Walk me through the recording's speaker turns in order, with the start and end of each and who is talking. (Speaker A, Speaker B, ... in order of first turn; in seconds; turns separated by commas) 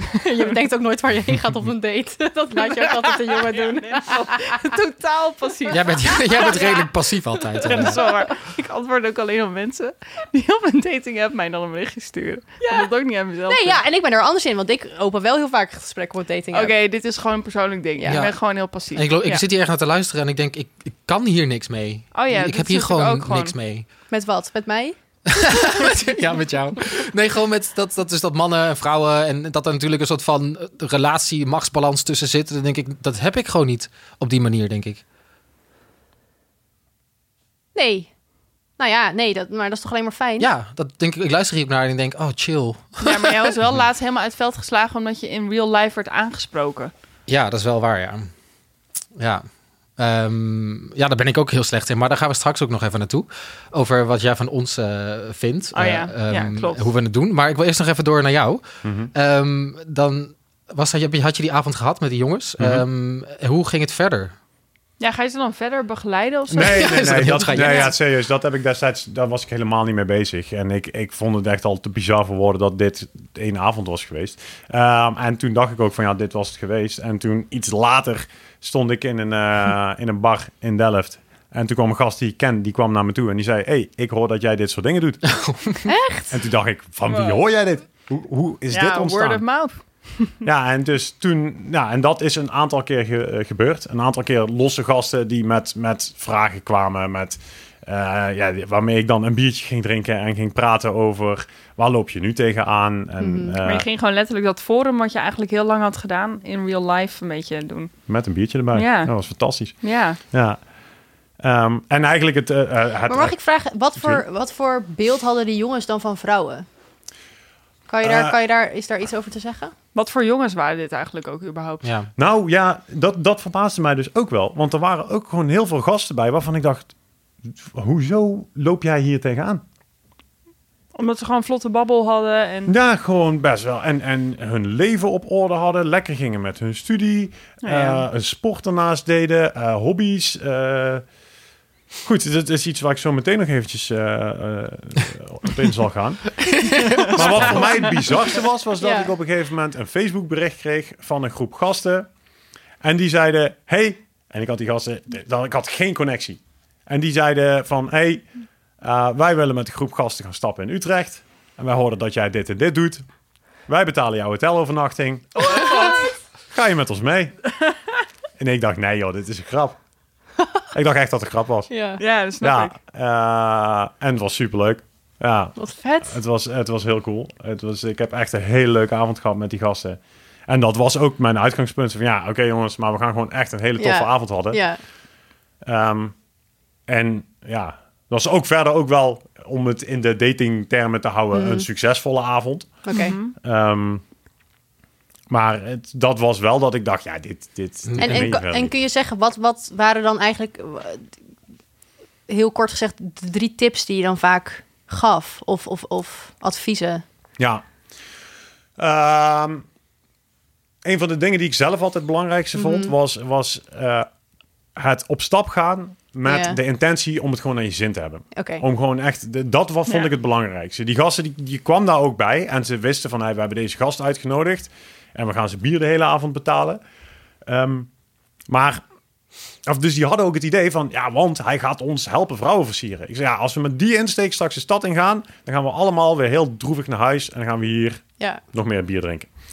Speaker A: 0.1-4.4, Speaker B: 2.5-6.9, Speaker C: 5.7-8.1, Speaker B: 7.6-13.8, Speaker A: 7.6-8.3, Speaker A: 12.6-12.9, Speaker A: 13.5-16.7, Speaker B: 16.5-19.4, Speaker C: 18.1-23.9, Speaker B: 22.1-23.6, Speaker A: 24.1-25.0, Speaker C: 25.4-35.0, Speaker A: 37.7-38.1, Speaker A: 38.8-40.5, Speaker C: 40.4-43.5, Speaker B: 43.0-46.9, Speaker C: 47.3-48.4, Speaker C: 49.1-58.6, Speaker B: 55.7-56.9, Speaker D: 58.8-59.1, Speaker C: 59.1-64.3, Speaker D: 62.6-62.8, Speaker B: 65.0-67.9, Speaker D: 66.5-85.4, Speaker C: 66.6-67.9, Speaker C: 85.5-85.8, Speaker A: 85.8-86.4, Speaker D: 86.3-89.4, Speaker B: 87.1-87.4, Speaker B: 88.7-90.3, Speaker D: 90.4-103.9, Speaker A: 103.2-103.6, Speaker B: 103.6-108.0, Speaker D: 108.1-110.6, Speaker B: 108.7-110.2, Speaker D: 111.4-113.4, Speaker A: 113.1-116.7, Speaker D: 113.9-114.2, Speaker A: 117.9-119.7, Speaker D: 118.0-118.3, Speaker B: 119.9-121.9, Speaker C: 121.8-122.1, Speaker D: 122.2-126.9, Speaker D: 127.5-129.6, Speaker B: 130.9-132.7, Speaker D: 132.7-141.0, Speaker B: 137.6-138.0, Speaker D: 142.0-152.1, Speaker C: 146.9-147.6, Speaker B: 147.1-147.8, Speaker A: 148.8-149.1, Speaker D: 152.8-158.3, Speaker D: 158.8-163.0, Speaker D: 163.7-167.4, Speaker B: 165.4-166.1, Speaker D: 168.4-169.8, Speaker D: 170.7-171.7, Speaker A: 171.7-172.0, Speaker B: 172.0-172.7, Speaker D: 172.4-184.7, Speaker A: 175.6-176.2, Speaker A: 183.8-184.8, Speaker D: 185.6-186.2, Speaker D: 186.9-194.0, Speaker A: 191.3-191.7, Speaker A: 192.8-193.1, Speaker B: 192.9-193.3, Speaker D: 195.3-198.7, Speaker C: 197.8-198.3, Speaker A: 198.0-201.2, Speaker A: 202.3-207.0, Speaker D: 208.8-209.6, Speaker D: 210.8-214.1, Speaker A: 212.6-212.9, Speaker D: 214.8-226.8, Speaker A: 216.2-216.6, Speaker A: 218.3-218.6, Speaker D: 227.4-227.9, Speaker D: 228.5-228.8, Speaker D: 229.7-239.3